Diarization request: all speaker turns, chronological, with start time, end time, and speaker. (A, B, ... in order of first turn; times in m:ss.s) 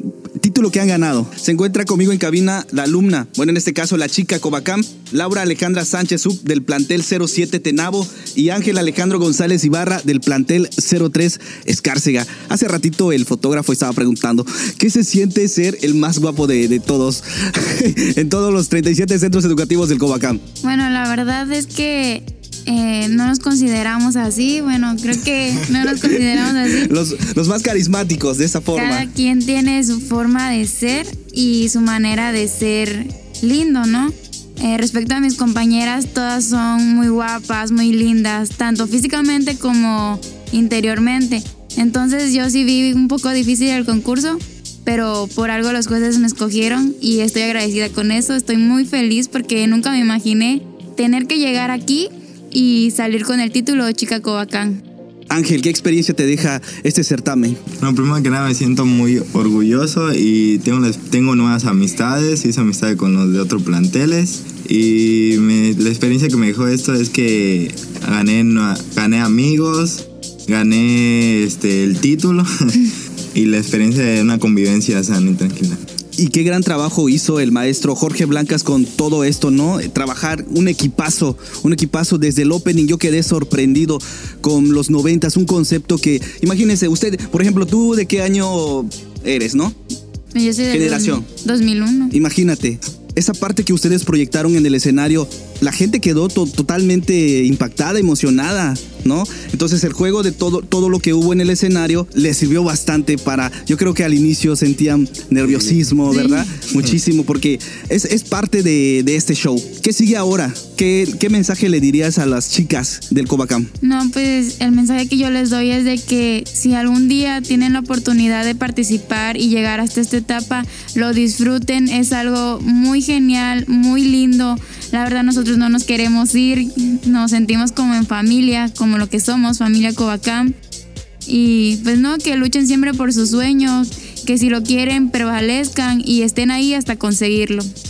0:00.4-0:20.4 A
0:20.6-0:26.9 B
0:26.7-0:29.1 A
0:28.7-0:54.8 B
0:55.3-0:57.6 A
0:57.8-1:15.8 C
1:16.2-1:29.8 A
1:30.3-1:32.1 B
1:30.7-1:31.2 A
1:32.1-1:53.7 A
1:53.8-2:10.5 B
2:11.2-2:17.7 B